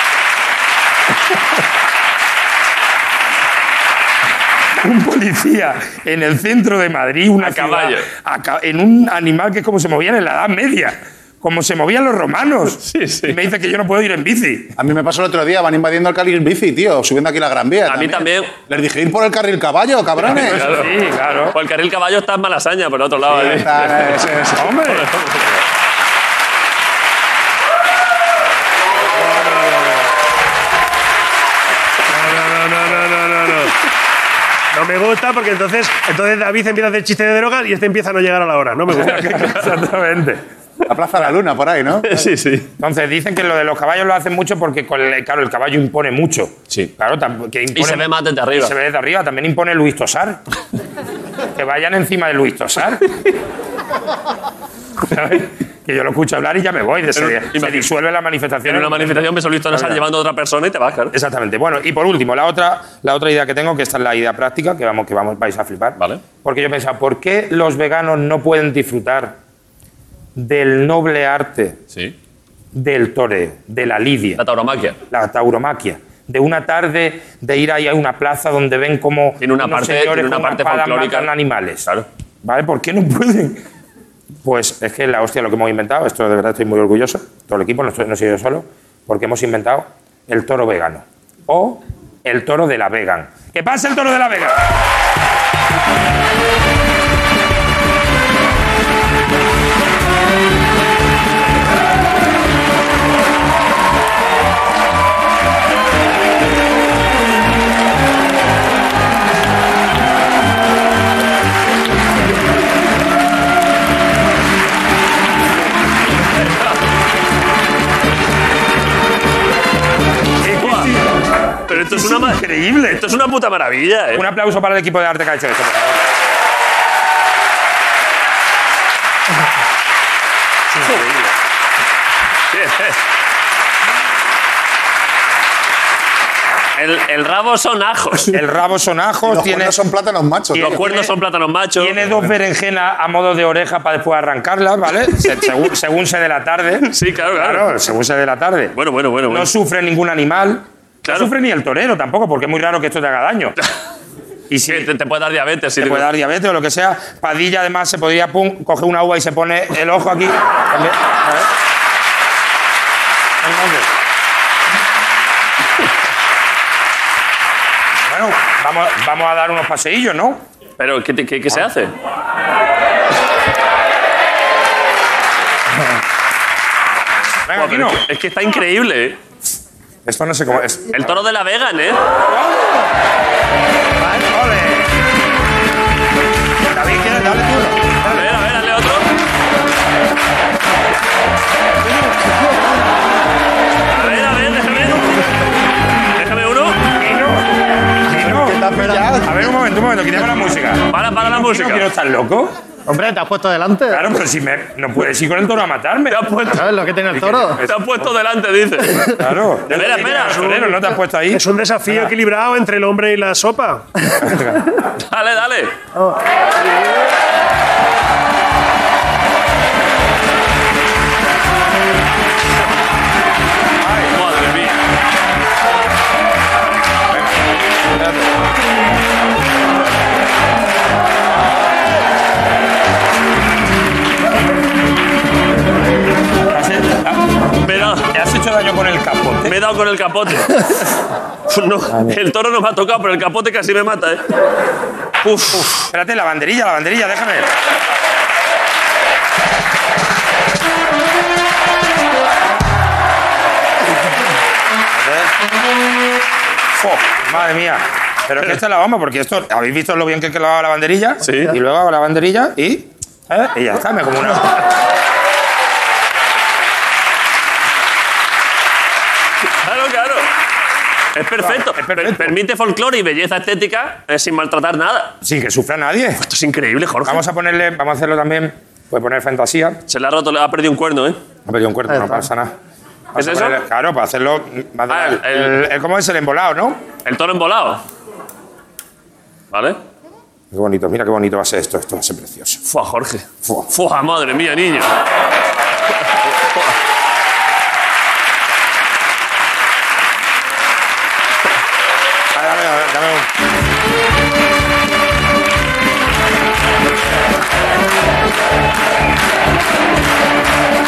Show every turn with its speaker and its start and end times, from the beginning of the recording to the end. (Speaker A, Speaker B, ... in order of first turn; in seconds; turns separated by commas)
Speaker A: 4.8-14.7, Speaker B: 7.4-8.1, Speaker B: 12.8-13.4, Speaker C: 14.8-20.7, Speaker B: 17.9-18.5, Speaker B: 20.2-20.9, Speaker A: 20.5-21.6, Speaker B: 21.5-24.1, Speaker C: 23.2-24.8, Speaker A: 24.6-25.1, Speaker B: 24.9-25.5, Speaker D: 29.2-30.0, Speaker D: 32.1-33.7, Speaker D: 34.7-39.6, Speaker A: 38.9-40.4, Speaker C: 40.9-42.2, Speaker B: 42.0-42.7, Speaker A: 42.8-50.4, Speaker B: 47.7-48.7, Speaker A: 51.5-53.1, Speaker A: 55.1-60.0, Speaker B: 57.1-57.9, Speaker B: 58.6-61.1, Speaker A: 61.1-69.3, Speaker A: 70.3-71.8, Speaker A: 72.7-74.4, Speaker B: 74.4-75.0, Speaker A: 75.1-81.9, Speaker B: 79.4-81.3, Speaker A: 82.4-83.6, Speaker A: 84.4-94.7, Speaker A: 120.4-121.0, Speaker B: 120.5-120.9, Speaker B: 121.7-124.2, Speaker A: 121.7-123.0, Speaker A: 124.1-126.0, Speaker B: 132.5-133.0, Speaker B: 136.8-138.3, Speaker A: 138.3-139.8, Speaker C: 139.3-140.8, Speaker A: 140.5-141.1, Speaker B: 140.5-142.3, Speaker A: 141.8-148.7, Speaker B: 146.9-147.7, Speaker B: 148.7-149.5, Speaker A: 149.3-153.6, Speaker B: 151.0-151.3, Speaker A: 154.5-154.9, Speaker B: 154.7-156.1, Speaker A: 155.8-161.5, Speaker A: 163.4-163.9, Speaker A: 168.1-170.4, Speaker B: 170.8-171.9, Speaker A: 177.4-178.0, Speaker B: 177.5-179.2, Speaker A: 180.0-181.1, Speaker B: 180.9-182.0, Speaker A: 182.3-182.6, Speaker A: 184.1-184.9, Speaker A: 186.7-187.9, Speaker B: 188.0-189.1, Speaker B: 193.9-195.1, Speaker B: 196.2-196.8, Speaker A: 197.0-197.4, Speaker A: 198.1-198.7, Speaker C: 198.1-199.2, Speaker E: 198.4-199.2, Speaker A: 199.2-202.5, Speaker B: 200.9-201.8, Speaker E: 202.8-204.1, Speaker A: 203.9-206.2, Speaker B: 206.1-206.7, Speaker E: 206.5-207.6, Speaker A: 207.2-207.7, Speaker B: 207.2-209.1, Speaker A: 209.2-212.1, Speaker B: 209.7-210.4, Speaker D: 209.8-213.9, Speaker A: 214.2-214.6, Speaker B: 215.0-215.8, Speaker A: 223.8-224.1, Speaker B: 224.1-224.8, Speaker A: 228.0-228.2, Speaker A: 236.5-239.6, Speaker B: 237.6-238.1, Speaker B: 239.4-240.9, Speaker B: 241.5-244.2, Speaker A: 241.9-242.2, Speaker B: 245.2-245.7, Speaker A: 245.6-247.5, Speaker A: 254.9-255.3, Speaker A: 256.8-264.6, Speaker B: 261.2-261.5, Speaker B: 269.6-270.3, Speaker B: 271.1-275.1, Speaker A: 271.4-272.3, Speaker A: 275.2-276.2, Speaker B: 276.3-277.2, Speaker A: 277.1-279.8, Speaker B: 279.9-281.2, Speaker A: 281.4-282.5, Speaker A: 283.1-286.8, Speaker B: 283.1-283.6, Speaker B: 284.9-285.6, Speaker B: 287.0-287.8, Speaker B: 289.5-289.8, Speaker A: 290.5-292.6, Speaker B: 292.7-294.9, Speaker A: 302.3-303.3